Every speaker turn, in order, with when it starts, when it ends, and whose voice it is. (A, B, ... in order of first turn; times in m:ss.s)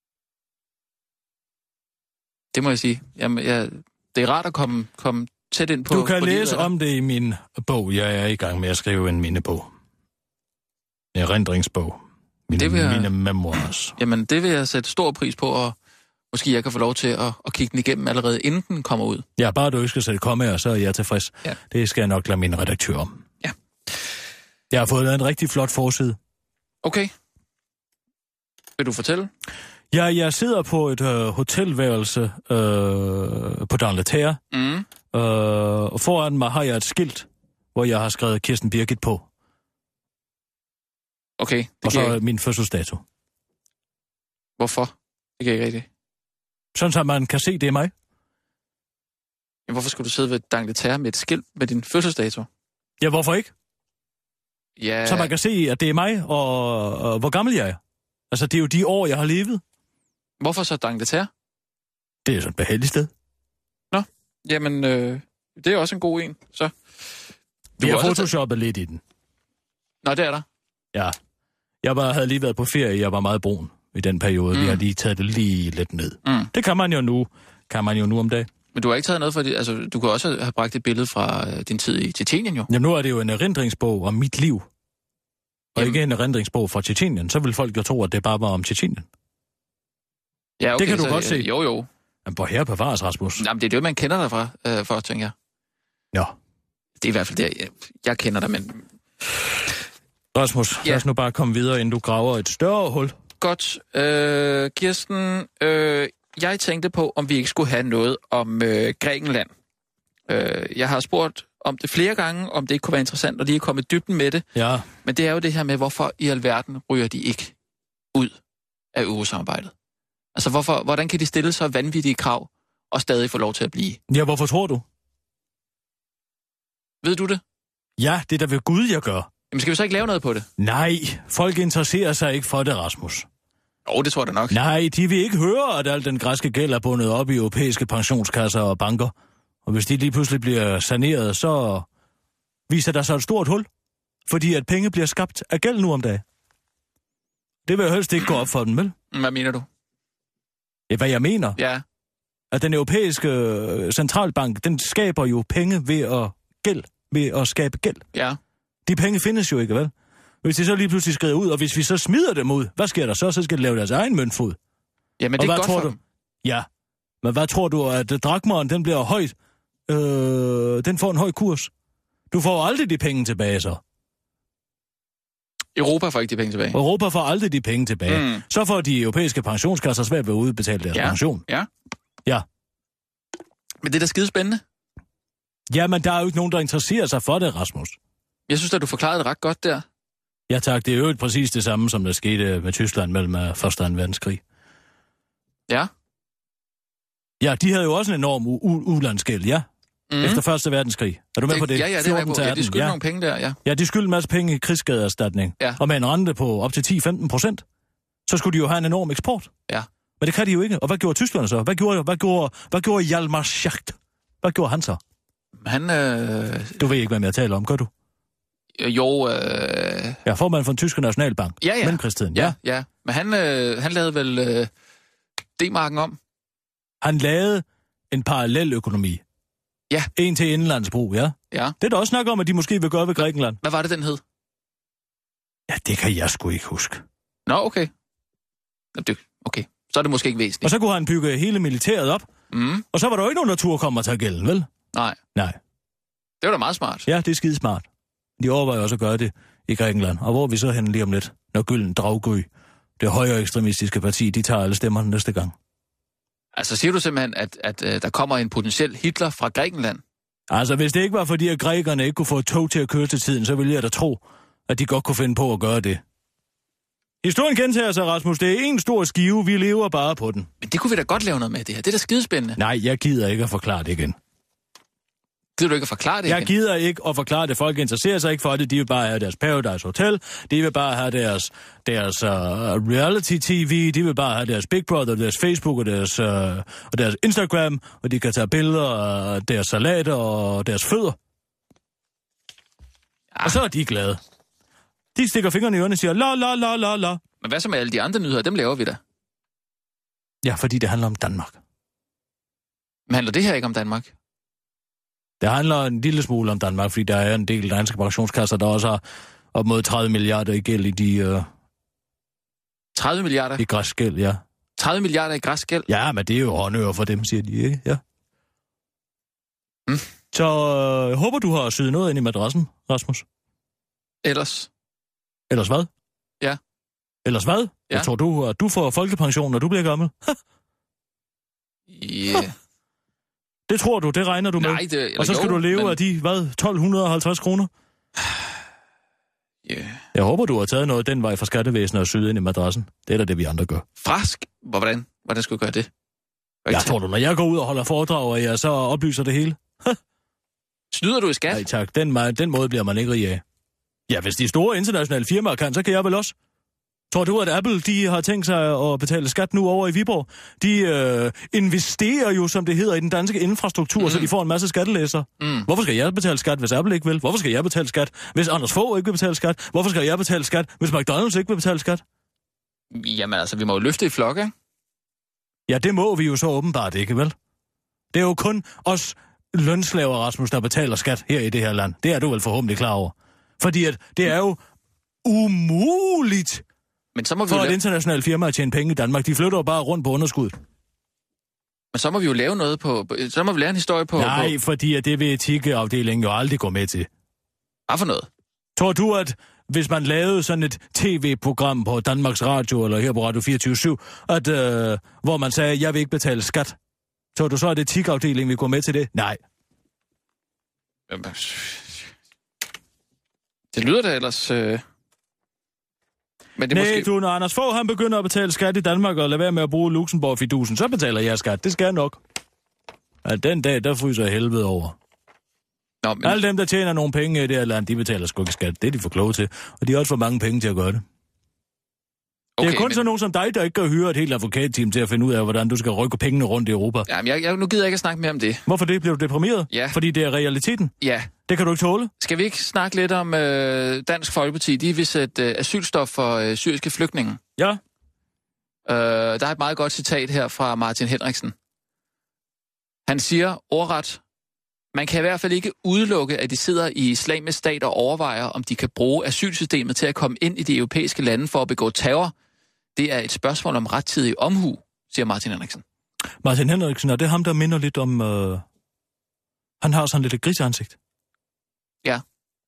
0:02.5-0:06.7 A
0:05.9-0:09.7 B
0:11.1-0:14.0 B
0:12.6-0:13.1 A
0:14.0-0:15.8 A
0:16.3-0:19.2 A
0:19.4-0:23.2 B
0:24.7-0:26.2 B
0:26.8-0:27.1 A
0:28.8-0:29.3 A
0:29.9-0:34.4 B
0:34.5-0:34.9 A
0:35.1-0:39.2 B
0:41.4-0:42.2 A
0:41.8-0:43.0 B
0:44.6-0:45.9 A
0:46.7-0:47.9 B
0:49.7-0:52.5 A
0:53.0-0:53.5 B
0:54.8-0:55.3 A
0:55.0-0:57.8 B
0:58.3-0:59.6 B
1:00.4-1:01.3 A
1:02.2-1:03.1 B
1:03.9-1:06.7 A
1:07.8-1:09.0 B
1:07.8-1:08.3 A
1:10.0-1:10.4 A
1:11.8-1:18.5 B
1:14.5-1:14.8 A
1:16.2-1:16.5 A
1:18.7-1:22.7 A
1:22.7-1:24.7 B
1:25.8-1:29.1 B
1:30.6-1:31.9 A
1:30.8-1:31.5 B
1:32.2-1:33.4 B
1:33.4-1:35.3 A
1:37.0-1:38.8 A
1:40.3-1:43.2 B
1:43.4-1:49.5 A
1:50.3-1:54.4 A
1:54.5-1:54.9 B
1:55.0-1:57.5 A
1:58.9-1:59.7 A
2:00.3-2:04.0 A
2:04.1-2:04.8 B
2:07.0-2:07.4 A
2:08.0-2:09.3 B
2:09.5-2:10.5 A
2:10.6-2:13.3 B
2:13.8-2:14.6 A
2:14.5-2:19.1 B
2:19.6-2:21.8 B
2:22.7-2:23.7 B
2:24.3-2:26.2 B
2:27.6-2:28.9 B
2:29.1-2:29.6 A
2:30.9-2:31.6 B
2:31.6-2:31.8 A
2:32.5-2:38.0 B
2:38.1-2:38.4 A
2:38.8-2:39.9 B
2:40.4-2:44.6 B
2:45.2-2:46.0 A
2:45.4-2:46.7 B
2:47.2-2:49.3 B
2:49.9-2:51.7 B
2:52.3-2:53.8 B
2:55.7-2:56.8 A
2:56.7-3:01.4 B
2:58.1-2:58.4 A
3:00.9-3:01.7 A
3:03.8-3:04.6 A
3:05.7-3:08.0 B
3:08.5-3:09.8 A
3:10.5-3:14.4 B
3:17.4-3:19.7 B
3:20.1-3:20.4 A
3:20.2-3:23.0 B
3:21.5-3:23.6 A
3:23.6-3:27.6 B
3:28.3-3:29.5 B
3:30.2-3:35.0 B
3:35.6-3:36.8 A
3:36.8-3:37.9 B
3:38.8-3:40.2 A
3:40.2-3:42.6 B
3:41.6-3:44.7 A
3:45.6-3:46.2 A
3:47.0-3:49.2 B
3:50.1-3:53.6 B
3:53.6-3:54.2 A
3:55.7-3:57.0 B
3:57.5-3:57.9 A
3:58.9-4:00.7 A
4:00.6-4:02.3 B
4:02.5-4:02.8 A
4:02.9-4:04.7 B
4:06.4-4:07.1 A
4:07.0-4:07.8 B
4:08.4-4:12.5 B
4:13.0-4:15.5 B
4:16.5-4:20.0 A
4:20.5-4:26.0 B
4:27.2-4:30.5 B
4:30.6-4:32.6 A
4:32.6-4:34.2 B
4:35.6-4:36.5 A
4:36.2-4:51.2 B
4:53.4-4:54.2 B
4:55.1-4:57.2 B
4:57.4-4:59.0 A
5:00.4-5:01.6 B
5:03.1-5:04.1 A
5:05.4-5:09.0 B
5:09.5-5:11.5 B
5:12.9-5:13.6 A
5:13.6-5:14.4 B
5:14.8-5:15.9 A
5:15.9-5:18.0 B
5:20.3-5:23.2 B
5:24.2-5:24.7 A
5:25.5-5:25.9 B
5:27.2-5:30.4 B
5:31.9-5:32.5 A
5:33.7-5:37.7 B
5:34.6-5:36.0 A
5:39.6-5:40.0 A
5:40.1-5:43.8 B
5:44.0-5:45.9 A
5:46.6-5:46.9 A
5:46.7-5:50.0 B
5:50.9-5:51.6 A
5:51.5-5:53.4 B
5:54.1-5:56.3 B
5:57.1-6:12.0 B
6:04.0-6:04.3 A
6:05.4-6:05.7 A
6:12.9-6:14.5 A
6:15.7-6:17.3 B
6:18.1-6:24.6 B
6:25.2-6:26.6 B
6:27.1-6:27.8 A
6:27.5-6:30.6 B
6:31.9-6:34.5 A
6:34.2-6:37.1 B
6:37.9-6:38.3 A
6:38.8-6:46.8 B
6:47.3-6:49.4 B
6:51.1-6:52.0 A
6:53.7-6:54.8 A
6:56.6-6:57.1 A
6:56.7-7:02.2 B
7:03.2-7:05.0 B
7:06.0-7:06.4 A
7:06.2-7:11.0 B
7:12.6-7:13.0 A
7:12.6-7:17.1 B
7:17.1-7:18.6 A
7:18.6-7:20.9 B
7:19.7-7:20.0 A
7:21.0-7:21.3 A
7:21.5-7:22.1 B
7:22.2-7:27.4 A
7:28.8-7:31.5 A
7:33.1-7:34.2 A
7:34.9-7:42.3 A
7:43.0-7:45.8 A
7:46.4-7:48.6 B
7:49.8-7:51.0 B